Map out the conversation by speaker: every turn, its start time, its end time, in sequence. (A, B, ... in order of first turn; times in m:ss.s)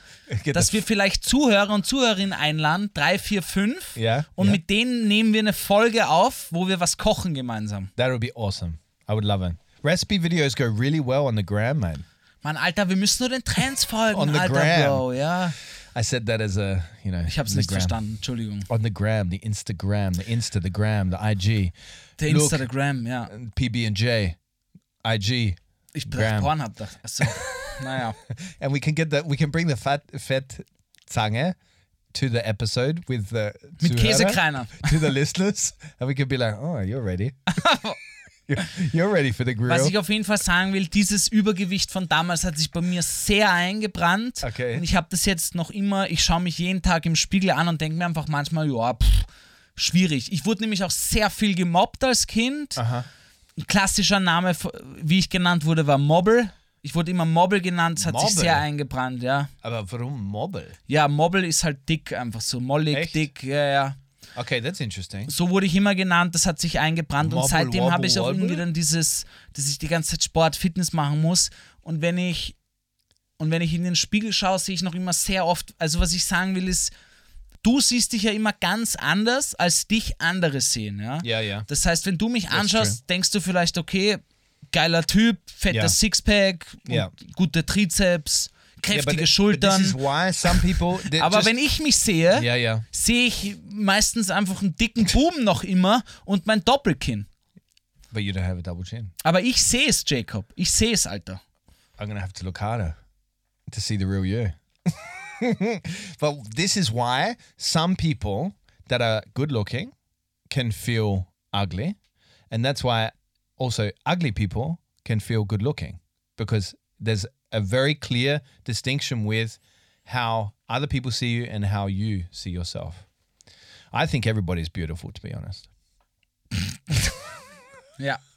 0:00.3-0:00.8 A
0:00.5-0:07.9 B
0:04.0-0:04.6 A
0:08.0-0:12.0 A
0:12.4-0:15.6 B
0:14.1-0:15.0 A
0:15.9-0:18.0 A
0:17.3-0:18.7 B
0:18.7-0:22.6 A
0:22.2-0:23.3 B
0:23.3-0:24.4 A
0:25.0-0:26.5 A
0:25.9-0:28.2 B
0:27.2-0:27.5 A
0:28.4-0:31.6 A
0:32.1-0:37.4 A
0:33.8-0:34.9 B
0:37.5-0:38.0 B
0:38.5-0:39.9 A
0:39.7-0:52.8 B
0:44.4-0:44.8 A
0:52.8-0:53.1 A
0:53.6-0:59.5 B
0:58.0-0:58.6 A
0:59.6-1:00.8 A
1:00.9-1:04.0 B
1:02.9-1:03.2 A
1:04.4-1:05.3 A
1:05.3-1:12.6 B
1:07.2-1:08.6 A
1:13.4-1:16.9 B
1:17.6-1:37.3 B
1:21.2-1:21.7 A
1:22.5-1:23.0 A
1:25.7-1:26.0 A
1:26.9-1:27.1 A
1:28.9-1:31.5 A
1:32.3-1:32.9 A
1:38.1-1:39.1 A
1:39.2-1:41.4 B
1:42.0-1:43.0 A
1:43.7-1:49.9 A
1:50.5-1:52.0 A
1:52.5-2:03.0 A
2:03.9-2:05.7 A